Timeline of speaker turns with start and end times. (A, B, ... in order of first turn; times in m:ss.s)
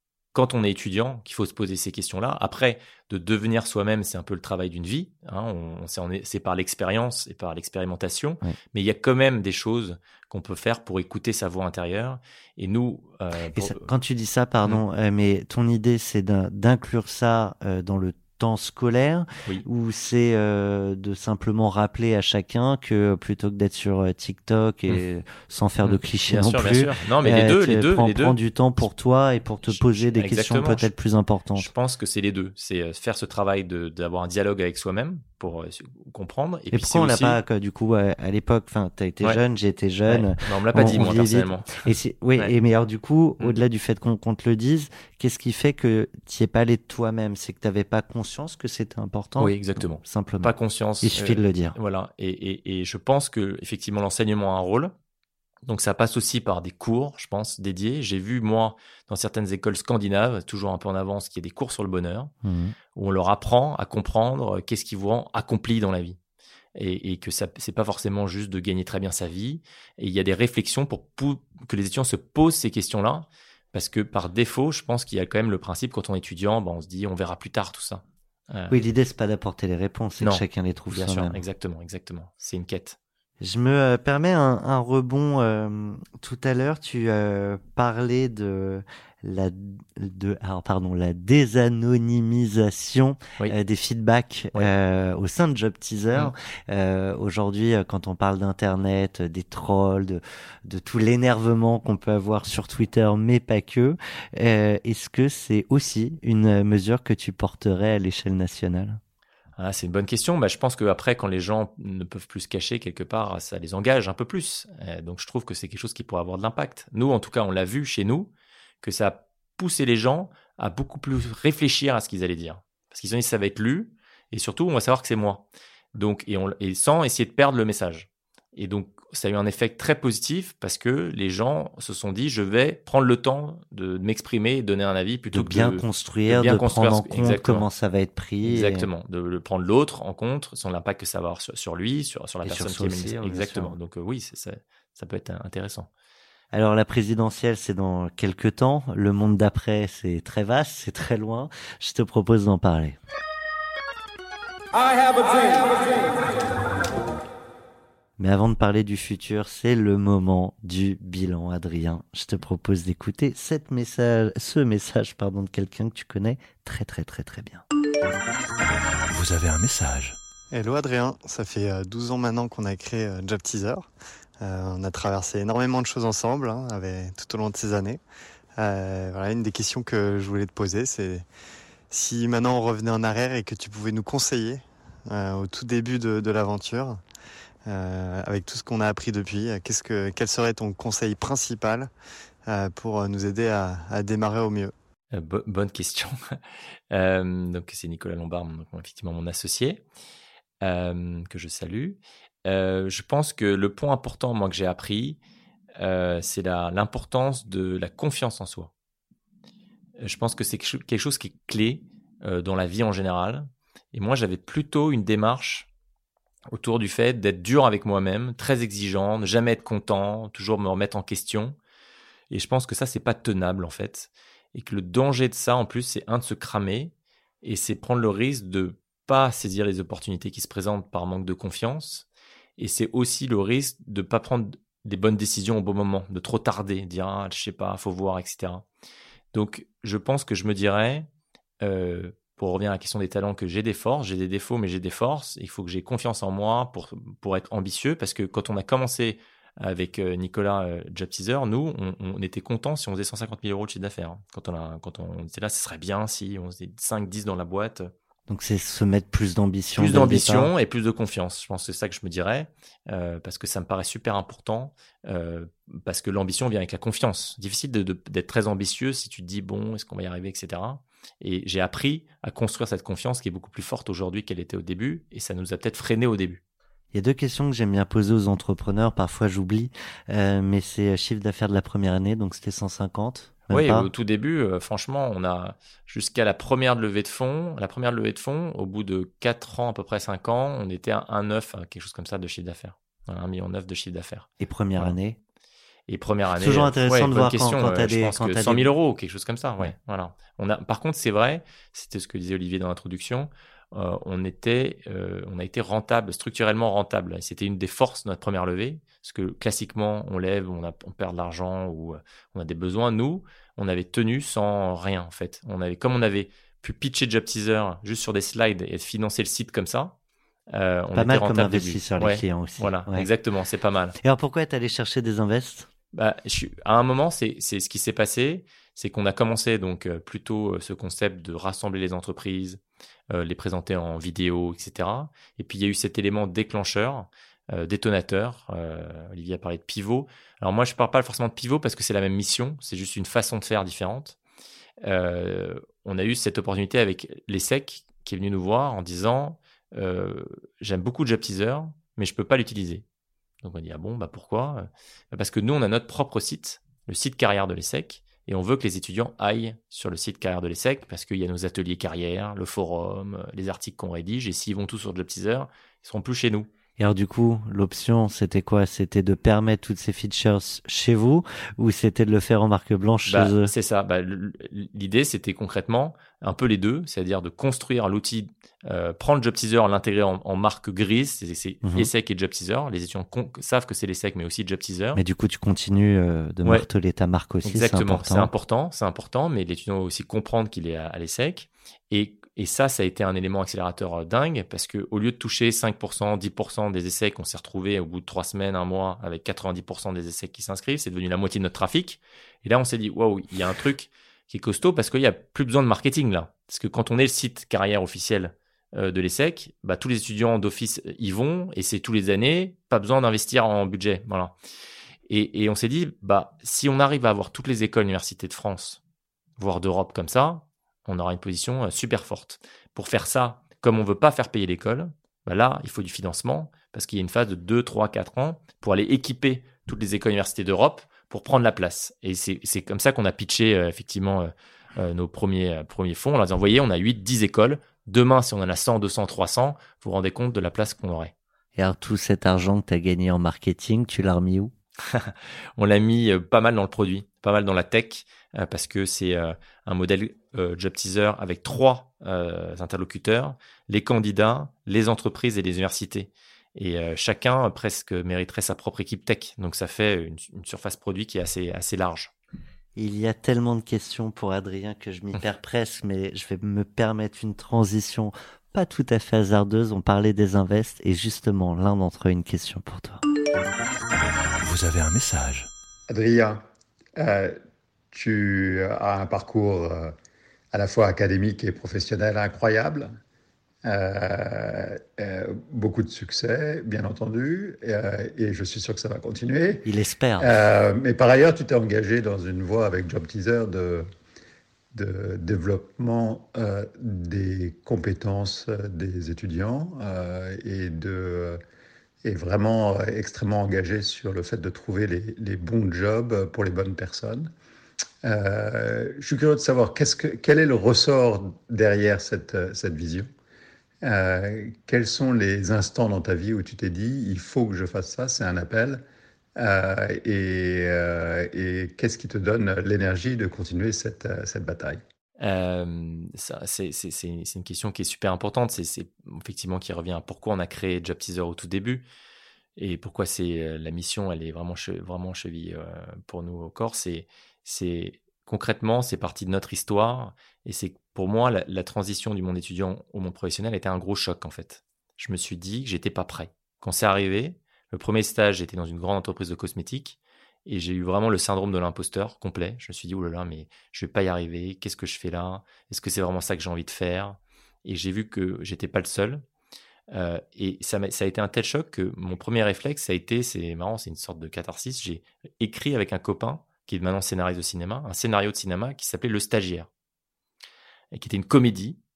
0:00.3-0:13.9 A
0:13.5-0:31.7 B
0:25.8-0:28.4 A
0:29.7-0:30.9 A
0:31.6-0:37.4 A
0:36.7-0:51.8 B
0:40.1-0:41.8 A
0:49.4-0:54.9 A
0:55.7-1:02.3 A
1:02.4-1:02.8 B
1:03.0-1:06.2 A
1:06.8-1:18.8 A
1:18.7-1:21.4 B
1:20.2-1:23.0 A
1:23.4-1:49.0 B
1:49.6-1:58.3 A
1:58.8-2:17.7 A
2:15.3-2:18.9 B
2:18.4-2:25.9 A
2:22.4-2:23.8 B
2:26.5-2:33.0 B
2:38.2-2:47.6 B
2:49.1-2:50.2 C
2:50.5-2:53.9 D
2:54.4-2:58.0 D
2:58.6-3:01.2 D
3:01.9-3:07.0 D
3:07.7-3:11.9 D
3:12.5-3:14.7 D
3:15.1-3:16.4 A
3:16.9-3:19.8 A
3:20.6-3:25.2 A
3:25.8-3:28.7 A
3:30.0-3:35.7 A
3:36.5-3:41.6 A
3:42.3-3:52.1 A
3:52.6-3:58.6 A
3:59.3-4:01.1 A
4:01.6-4:17.9 A
4:18.3-4:20.5 B
4:19.8-4:36.4 A
4:36.9-4:43.9 B
4:43.5-4:55.0 A
4:54.4-4:55.2 B
4:55.9-5:19.9 A
4:56.3-4:58.7 B
5:20.5-5:24.0 A
5:21.0-5:23.1 B
5:24.0-5:25.7 B
5:25.9-5:32.6 A
5:33.1-5:44.2 A
5:44.8-5:52.8 A
5:53.4-6:06.5 A
6:06.8-6:13.5 B
6:13.1-6:25.0 A
6:21.6-6:21.9 B
6:25.0-6:28.3 B
6:27.4-6:54.3 A
6:55.1-6:58.8 A
6:59.4-7:21.1 A
7:21.6-7:24.5 B
7:24.9-7:42.1 A
7:42.8-7:53.0 B
7:54.4-7:55.5 C
7:55.9-7:56.4 E
7:57.0-7:57.4 E
7:57.9-7:59.9 E
8:00.5-8:02.9 E
8:03.6-8:09.7 E
8:09.6-8:10.4 B
8:10.2-8:13.9 E
8:14.7-8:21.4 E
8:22.0-8:27.3 E
8:28.0-8:33.1 E
8:33.8-8:38.8 E
8:39.4-8:44.8 E
8:45.2-8:51.8 A
8:52.6-9:19.2 A
9:19.9-9:29.7 A
9:30.9-9:31.8 A